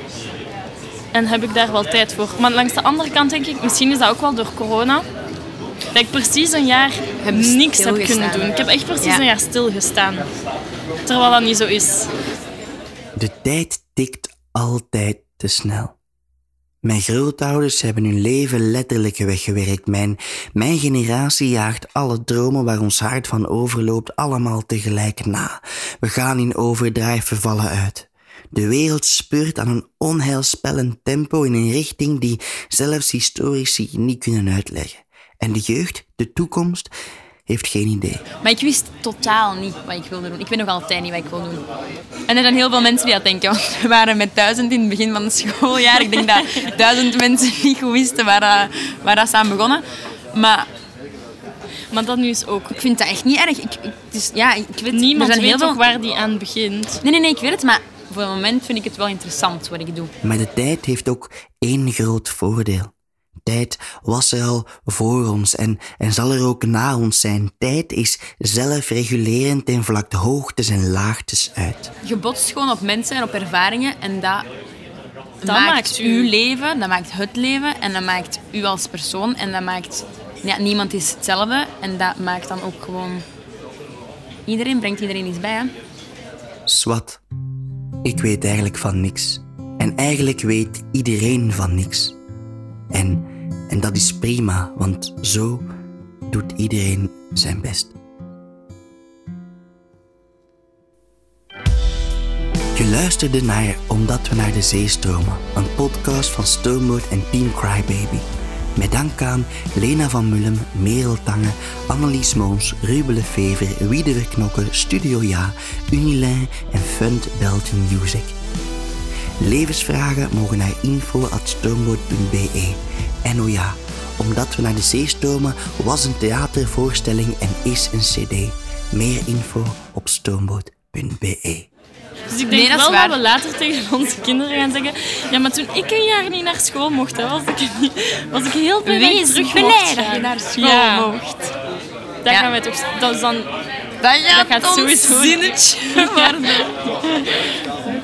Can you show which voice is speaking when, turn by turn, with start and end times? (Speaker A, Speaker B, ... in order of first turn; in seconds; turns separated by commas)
Speaker A: 1.1-5.0, Speaker A: 5.9-10.2, Speaker B: 7.2-9.2, Speaker A: 11.1-12.1, Speaker C: 13.2-15.9, Speaker C: 16.8-36.9, Speaker C: 37.5-38.2, Speaker B: 38.4-41.6, Speaker B: 42.3-50.7, Speaker A: 45.9-46.6, Speaker A: 51.9-52.8, Speaker B: 52.7-55.8, Speaker A: 54.9-57.0, Speaker B: 57.0-60.1, Speaker C: 60.2-62.9, Speaker C: 63.4-71.9, Speaker B: 72.0-74.5, Speaker B: 75.4-83.2, Speaker A: 75.4-76.3, Speaker B: 84.5-85.7, Speaker C: 86.7-87.2, Speaker C: 88.0-92.2, Speaker C: 92.9-95.6, Speaker C: 96.3-98.0, Speaker C: 102.8-118.4, Speaker C: 119.4-131.7, Speaker A: 132.3-141.1, Speaker B: 132.5-133.2, Speaker B: 138.8-141.5, Speaker A: 142.2-143.5, Speaker B: 144.0-146.8, Speaker A: 144.3-146.7